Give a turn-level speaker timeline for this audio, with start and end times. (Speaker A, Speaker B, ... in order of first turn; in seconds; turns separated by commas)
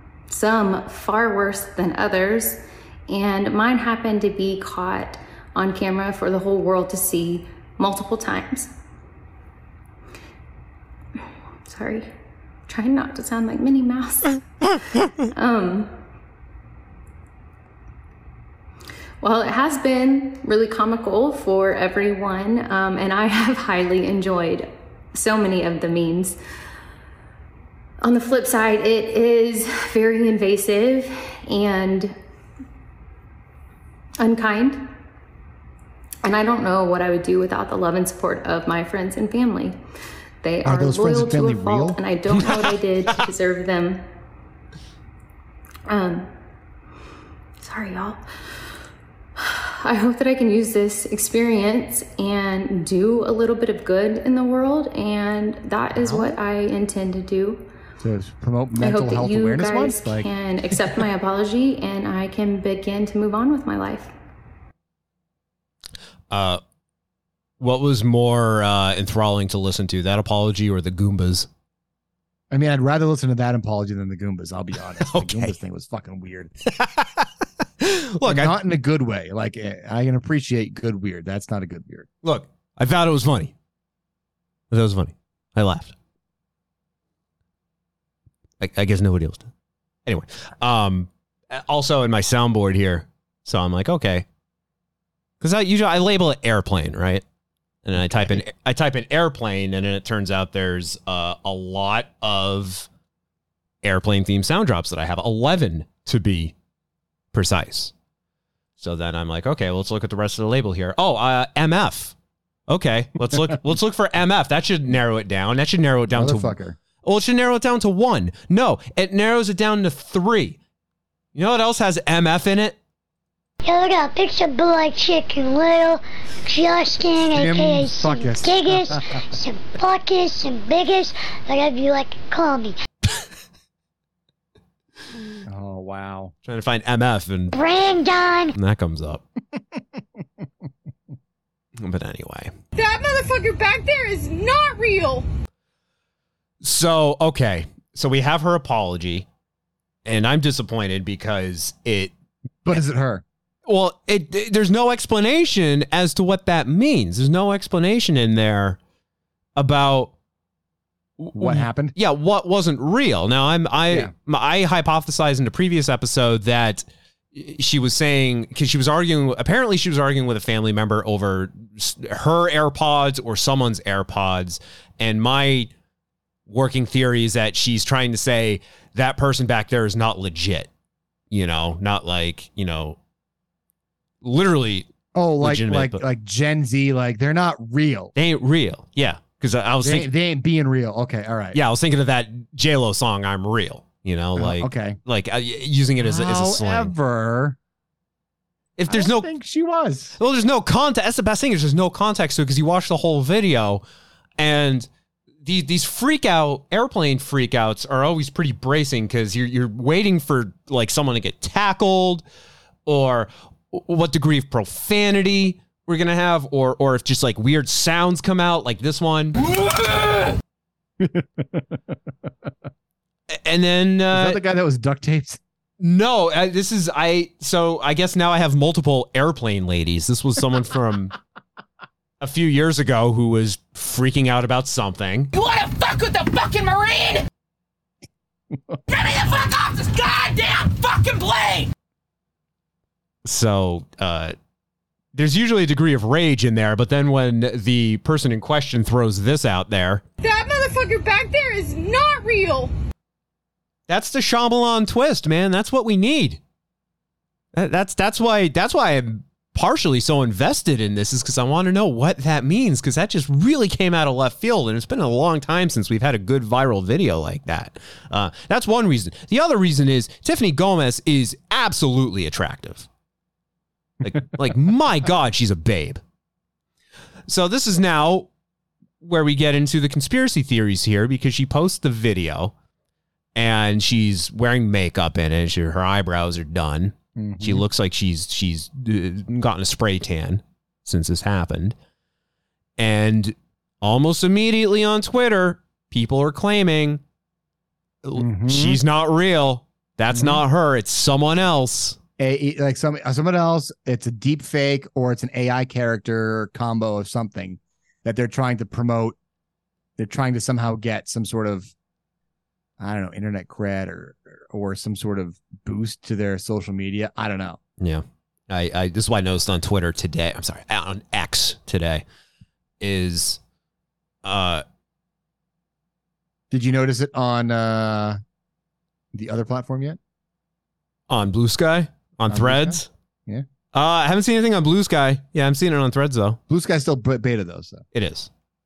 Speaker A: 0.3-8.7, Speaker A: 11.6-12.1, Speaker A: 12.7-14.4, Speaker A: 15.3-15.9, Speaker A: 19.2-26.4, Speaker A: 28.0-32.1, Speaker A: 34.2-34.9, Speaker A: 36.2-39.8, Speaker A: 40.4-44.0, Speaker B: 40.6-42.0, Speaker C: 42.3-42.7, Speaker A: 45.9-46.3, Speaker A: 47.6-48.2, Speaker A: 49.4-57.6, Speaker B: 58.0-60.3, Speaker A: 58.8-64.1, Speaker C: 66.3-66.6, Speaker C: 67.6-71.5, Speaker B: 72.5-76.5, Speaker C: 75.0-75.5, Speaker C: 76.7-77.2, Speaker C: 77.8-78.6, Speaker B: 78.2-82.1, Speaker C: 82.2-83.5, Speaker C: 84.7-85.9, Speaker C: 88.6-89.5, Speaker C: 90.0-94.3, Speaker C: 95.4-97.2, Speaker C: 97.8-102.9, Speaker B: 98.1-98.4, Speaker C: 103.8-106.5, Speaker C: 107.3-107.9, Speaker C: 108.8-112.1, Speaker C: 112.7-120.6, Speaker B: 116.1-116.8, Speaker C: 121.3-122.8, Speaker D: 123.6-132.8, Speaker B: 127.2-129.0, Speaker B: 135.4-136.3, Speaker C: 136.4-137.5, Speaker D: 137.5-138.5, Speaker C: 138.5-139.2, Speaker B: 139.5-140.4, Speaker C: 141.8-142.5, Speaker E: 142.8-145.2, Speaker C: 146.6-149.2, Speaker C: 150.0-152.1, Speaker B: 152.6-153.2, Speaker C: 153.7-158.8, Speaker C: 159.6-160.1, Speaker C: 161.2-175.7, Speaker B: 161.3-161.9, Speaker C: 176.5-180.7, Speaker C: 181.3-183.0, Speaker C: 184.2-184.9, Speaker B: 185.1-188.1, Speaker C: 185.4-186.0, Speaker C: 188.1-190.1, Speaker B: 189.8-191.6, Speaker C: 191.5-196.9, Speaker B: 194.3-195.0, Speaker B: 196.0-197.6, Speaker C: 198.8-199.3, Speaker B: 198.9-200.2, Speaker C: 200.2-203.8, Speaker C: 204.4-204.9, Speaker C: 205.4-212.2, Speaker C: 212.8-219.5, Speaker B: 221.0-222.5, Speaker C: 223.3-224.4, Speaker B: 224.1-225.4, Speaker C: 225.8-231.1, Speaker C: 232.2-235.3, Speaker F: 235.3-237.2, Speaker B: 238.5-238.8, Speaker F: 238.9-241.7, Speaker C: 243.2-244.3, Speaker C: 245.1-250.0, Speaker E: 250.2-252.7, Speaker C: 253.9-256.4, Speaker C: 257.5-272.9, Speaker C: 274.0-276.0, Speaker C: 277.3-278.3, Speaker C: 279.0-282.5, Speaker C: 283.3-291.8, Speaker B: 287.1-287.6, Speaker C: 292.8-297.0, Speaker C: 298.0-302.0, Speaker B: 298.1-298.8, Speaker B: 300.1-300.4, Speaker B: 302.2-309.1, Speaker B: 310.0-311.7, Speaker B: 312.8-317.6, Speaker C: 317.8-322.0, Speaker C: 322.8-323.4, Speaker C: 324.2-324.6, Speaker B: 326.5-328.2, Speaker B: 329.1-330.0, Speaker C: 331.1-332.9, Speaker B: 332.3-333.4, Speaker C: 333.7-336.4, Speaker B: 336.5-337.8, Speaker C: 337.9-338.3